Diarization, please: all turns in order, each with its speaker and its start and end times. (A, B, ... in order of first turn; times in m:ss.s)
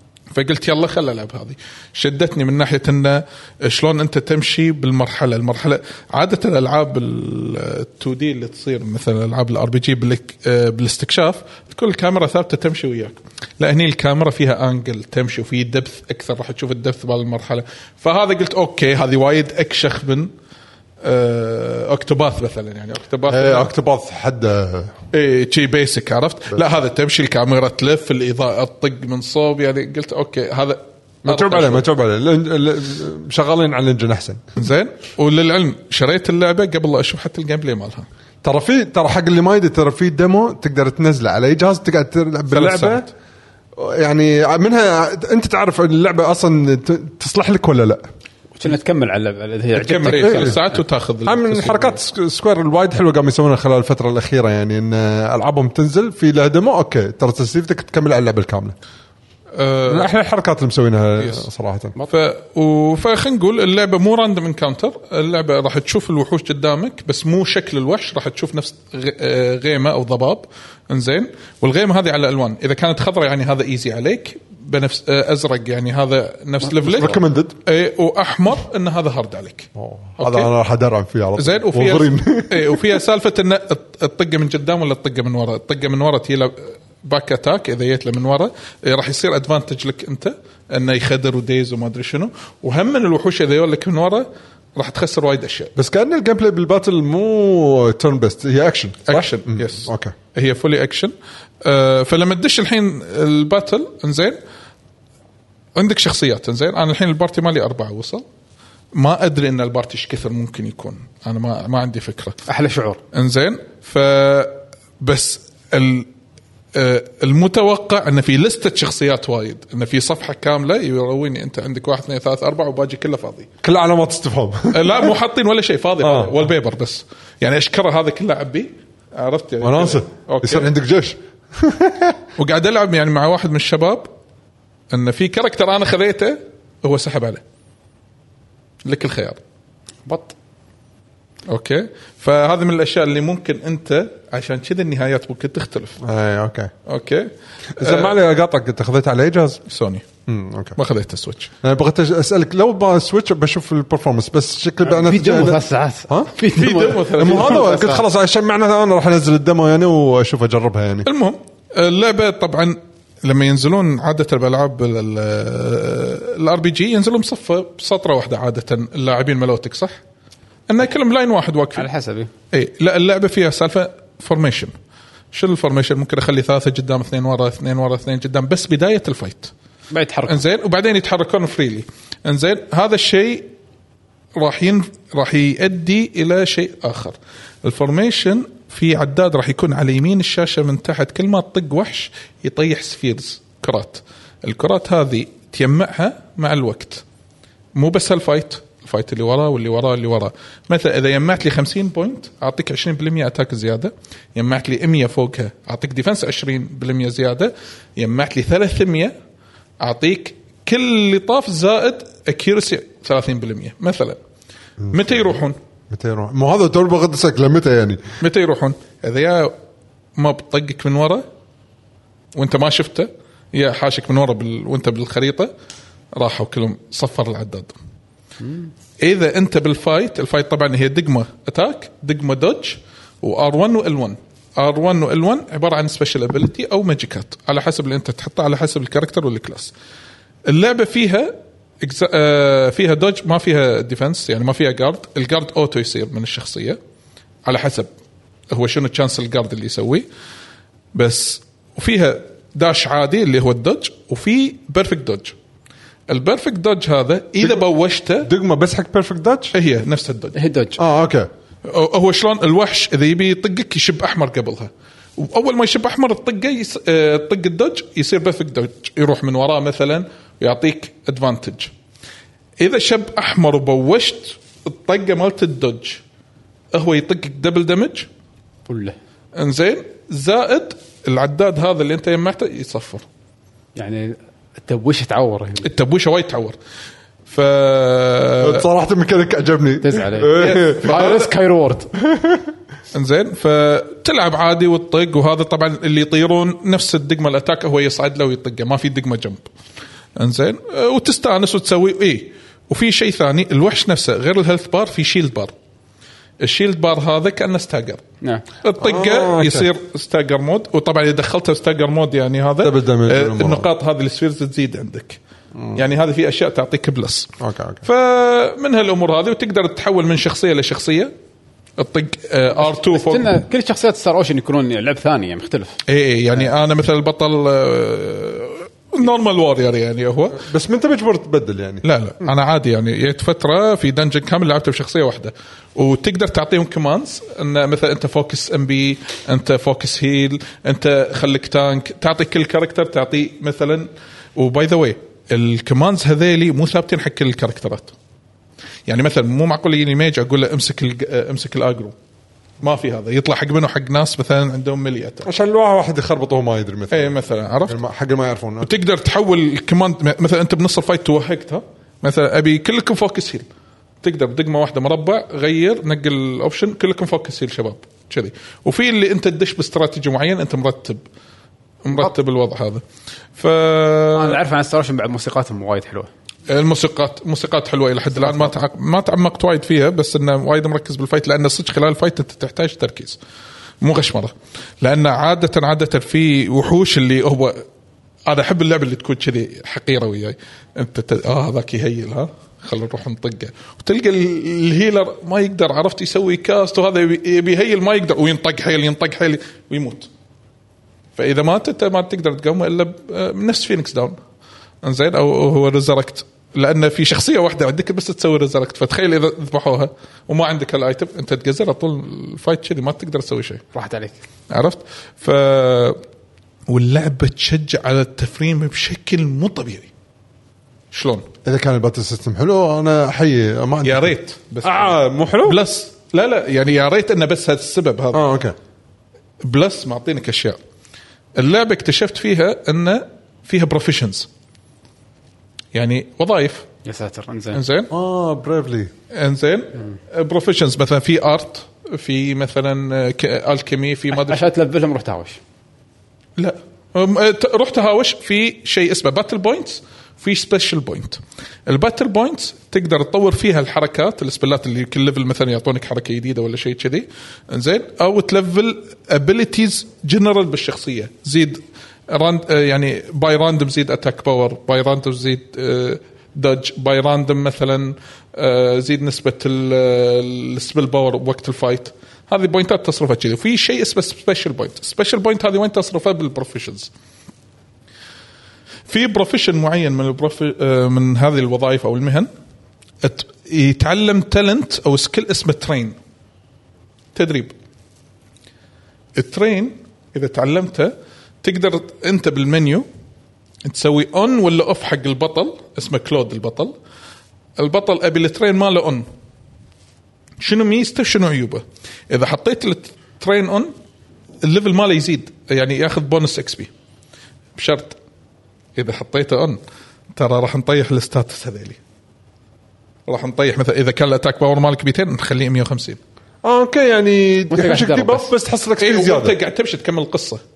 0:00.3-0:20.3 A
0:21.0-0:23.7 A
0:23.3-0:24.9 B
0:25.1-0:31.8 A
0:31.2-0:34.4 B
0:34.6-0:38.1 A
0:38.4-0:43.1 B
0:42.5-0:43.1 A
0:43.8-0:48.0 B
0:48.6-0:50.7 C
0:49.8-0:52.0 A
0:50.0-0:50.6 B
0:51.2-0:58.7 B
0:59.5-1:00.1 A
0:59.9-1:01.9 B
1:02.1-1:20.5 A
1:16.8-1:17.6 B
1:19.8-1:22.9 B
1:21.4-1:35.7 A
1:35.8-1:40.1 B
1:39.1-1:41.1 A
1:41.6-1:44.4 A
1:45.7-1:48.2 A
1:48.9-1:52.4 A
1:52.5-1:53.0 C
1:53.1-1:56.1 A
1:56.7-2:03.5 A
2:03.6-2:05.1 B
2:04.7-2:10.7 A
2:06.0-2:06.4 B
2:09.6-2:12.2 B
2:12.4-2:14.1 A
2:14.9-2:17.4 A
2:18.8-2:19.4 A
2:20.0-2:20.3 C
2:21.5-2:26.0 A
2:26.0-2:26.7 B
2:26.8-2:28.2 A
2:27.8-2:29.6 B
2:29.7-2:30.0 A
2:30.3-2:30.8 B
2:30.8-2:31.5 A
2:31.6-2:36.3 B
2:34.8-2:38.0 C
2:36.5-2:38.0 A
2:37.2-2:41.1 B
2:41.0-2:50.0 A
2:50.7-2:51.9 A
2:51.8-2:52.3 C
2:52.5-2:54.7 A
2:55.3-2:59.5 A
2:59.9-3:00.4 C
3:00.3-3:03.5 A
3:04.4-3:17.0 A
3:17.7-3:29.1 A
3:29.8-3:34.2 A
3:34.8-3:35.3 B
3:34.9-3:35.6 A
3:35.9-3:38.0 B
3:38.2-3:39.6 A
3:40.2-3:41.2 A
3:42.3-3:45.5 A
3:46.1-3:47.8 A
3:48.4-3:48.7 C
3:49.0-3:59.7 A
4:00.5-4:06.8 A
4:07.4-4:07.9 A
4:08.5-4:10.0 A
4:10.9-4:15.3 A
4:16.1-4:18.3 A
4:18.2-4:19.5 B
4:19.5-4:20.4 A
4:20.3-4:20.8 C
4:20.8-4:21.3 B
4:21.6-4:31.7 A
4:32.6-4:36.0 A
4:36.7-4:38.1 A
4:38.7-4:39.0 C
4:39.3-4:43.0 A
4:43.8-4:45.7 C
4:45.6-4:46.6 A
4:47.2-4:48.6 A
4:48.4-4:51.1 B
4:49.8-4:51.9 C
4:50.4-4:51.3 A
4:52.0-4:52.5 B
4:52.9-4:59.4 A
5:00.2-5:05.5 A
5:06.4-5:08.0 A
5:08.6-5:15.2 A
5:08.8-5:09.7 B
5:12.6-5:13.7 B
5:15.5-5:15.8 B
5:15.7-5:17.3 A
5:17.4-5:17.8 B
5:17.8-5:21.1 A
5:21.8-5:23.3 A
5:22.6-5:25.8 C
5:25.9-5:30.4 A
5:30.3-5:31.8 B
5:31.8-5:47.9 A
5:48.9-5:51.9 A
5:52.6-5:55.3 A
5:55.2-5:58.7 B
5:56.9-5:57.8 A
5:58.6-6:03.4 A
6:04.0-6:11.0 A
6:11.8-6:12.8 A
6:13.4-6:14.4 A
6:14.1-6:16.1 C
6:16.5-6:23.2 A
6:23.8-6:27.6 A
6:28.3-6:40.1 A
6:41.2-6:44.2 A
6:44.8-6:53.6 A
6:53.7-6:54.2 C
6:54.5-6:56.0 A
6:56.7-6:59.9 A
7:00.9-7:01.3 A
7:01.4-7:05.6 B
7:03.8-7:08.2 A
7:08.1-7:08.5 B
7:09.4-7:10.6 A
7:11.4-7:14.3 A
7:15.7-7:16.7 A
7:16.8-7:17.6 C
7:17.5-7:17.9 A
7:17.9-7:18.9 B
7:19.1-7:24.4 A
7:24.1-7:25.4 C
7:26.4-7:56.9 A
7:58.9-8:02.3 A
8:03.0-8:06.0 A
8:07.1-8:07.5 A
8:09.2-8:12.8 A
8:13.6-8:16.7 A
8:17.6-8:19.1 A
8:20.4-8:23.7 A
8:24.4-8:26.7 A
8:27.6-8:28.0 A
8:28.8-8:29.6 A
8:30.1-8:31.8 A
8:33.1-8:36.0 A
8:36.4-8:39.3 B
8:37.5-8:38.3 C
8:38.8-8:40.4 A